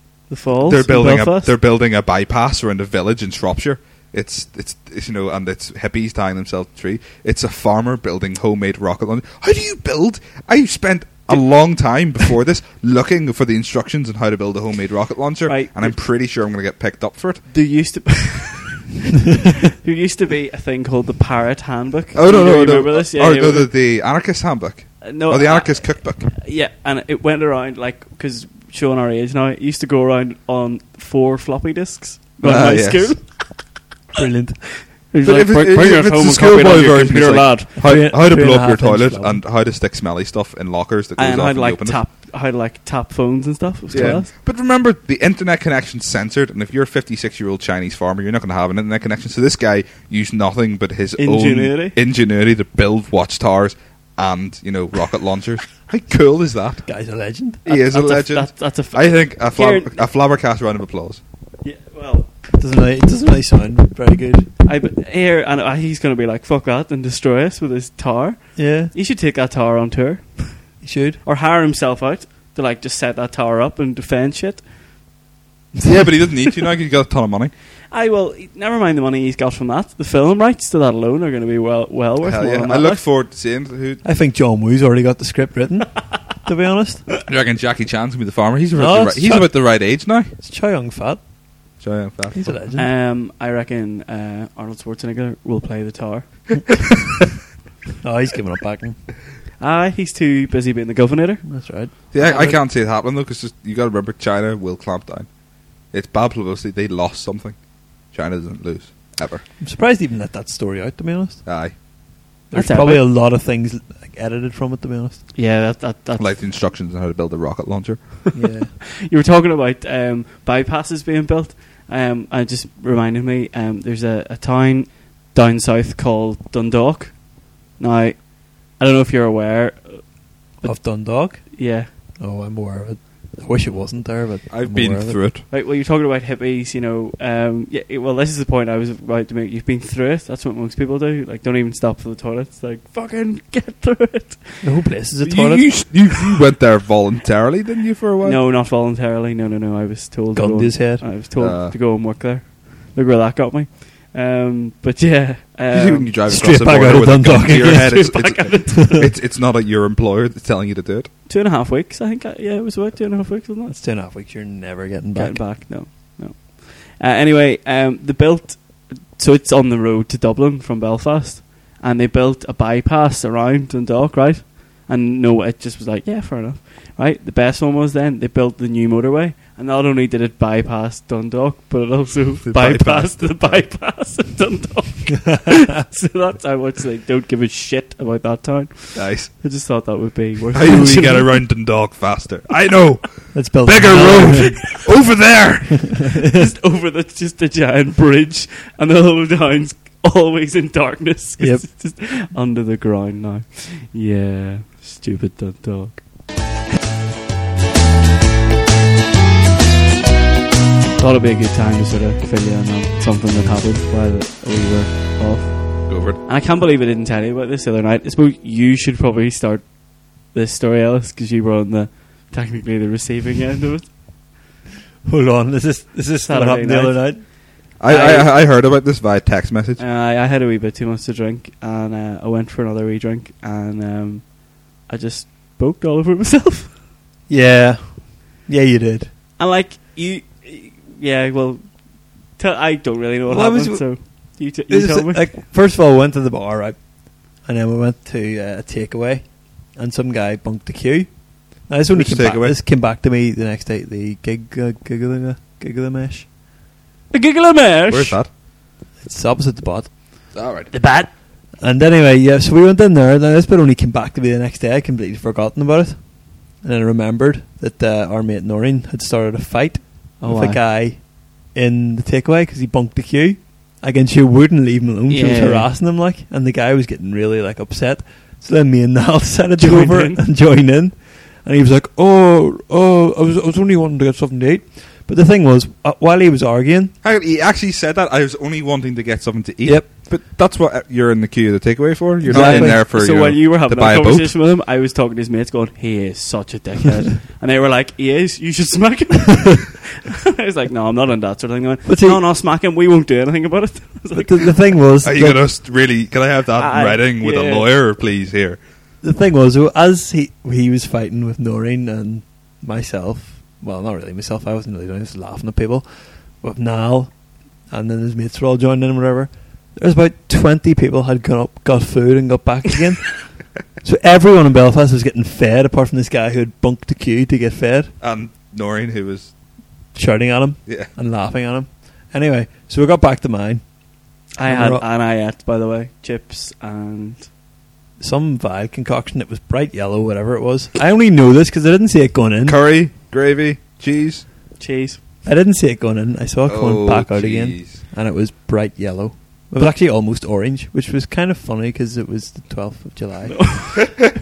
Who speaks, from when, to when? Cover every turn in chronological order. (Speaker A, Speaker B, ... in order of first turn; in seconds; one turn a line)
Speaker A: 0.3-1.5
Speaker B: 0.6-17.4
Speaker A: 15.4-15.9
Speaker A: 17.5-23.7
Speaker B: 22.1-26.3
Speaker A: 25.0-33.6
Speaker B: 32.4-33.3
Speaker C: 34.1-34.8
Speaker A: 35.1-37.7
Speaker B: 35.2-42.0
Speaker C: 37.8-39.4
Speaker A: 41.1-44.3
Speaker B: 43.9-56.8
Speaker C: 44.0-44.2
Speaker A: 51.2-51.9
Speaker C: 56.9-57.6
Speaker B: 57.6-61.2
Speaker A: 57.7-60.0
Speaker A: 61.6-62.3
Speaker C: 62.5-64.5
Speaker A: 64.7-74.7
Speaker C: 68.5-68.9
Speaker C: 70.8-71.2
Speaker B: 75.8-77.5
Speaker A: 77.9-83.0
Speaker B: 82.2-84.0
Speaker C: 84.0-87.0
Speaker B: 87.2-90.3
Speaker C: 88.7-89.5
Speaker C: 90.4-91.2
Speaker B: 91.8-92.5
Speaker C: 92.3-92.9
Speaker A: 92.7-96.8
Speaker C: 98.0-99.0
Speaker A: 99.6-101.5
Speaker C: 101.4-102.6
Speaker B: 102.1-105.3
Speaker A: 102.2-102.5
Speaker B: 105.9-109.4
Speaker C: 109.6-111.4
Speaker B: 111.4-111.8
Speaker C: 112.5-115.2
Speaker A: 112.5-113.1
Speaker A: 115.3-116.4
Speaker B: 116.2-118.2
Speaker C: 118.3-118.7
Speaker A: 119.0-130.0
Speaker A: 130.6-131.9
Speaker C: 130.6-135.2
Speaker B: 134.5-135.4
Speaker A: 135.5-144.7
Speaker C: 144.6-145.7
Speaker B: 145.2-148.4
Speaker A: 148.2-156.1
Speaker C: 150.3-151.1
Speaker B: 151.3-151.8
Speaker B: 155.7-161.1
Speaker C: 156.3-158.1
Speaker A: 157.6-159.1
Speaker C: 158.7-159.0
Speaker A: 161.2-163.7
Speaker C: 163.7-165.4
Speaker A: 165.2-191.4
Speaker B: 182.4-183.8
Speaker B: 188.9-189.4
Speaker B: 190.5-196.1
Speaker C: 193.3-194.6
Speaker A: 193.8-194.9
Speaker C: 196.0-196.5
Speaker A: 196.3-206.1
Speaker C: 201.4-201.7
Speaker A: 210.9-223.9
Speaker B: 215.9-216.2
Speaker C: 225.0-227.3
Speaker A: 226.3-228.3
Speaker B: 227.8-229.8
Speaker A: 229.8-236.7
Speaker C: 237.3-239.1
Speaker A: 239.4-245.4
Speaker C: 243.3-256.3
Speaker B: 251.9-252.5
Speaker A: 257.1-258.2
Speaker B: 257.9-258.3
Speaker C: 259.0-259.9
Speaker B: 260.3-260.7
Speaker A: 260.7-261.1
Speaker C: 261.6-286.9
Speaker A: 270.2-270.6
Speaker A: 275.1-275.7
Speaker A: 279.6-280.2
Speaker B: 287.0-294.4
Speaker C: 289.6-289.9
Speaker C: 292.2-292.8
Speaker A: 292.3-304.6
Speaker C: 301.8-302.2
Speaker C: 304.1-305.4
Speaker B: 305.0-308.6
Speaker A: 306.6-307.7
Speaker C: 309.0-315.9
Speaker C: 316.4-327.9
Speaker B: 328.0-329.3
Speaker C: 329.9-333.6
Speaker B: 330.6-330.9
Speaker A: 334.4-337.3
Speaker C: 334.4-334.9
Speaker C: 338.0-342.6
Speaker B: 342.4-344.2
Speaker A: 344.6-345.0
Speaker C: 345.2-353.9
Speaker B: 346.5-347.8
Speaker A: 353.4-353.9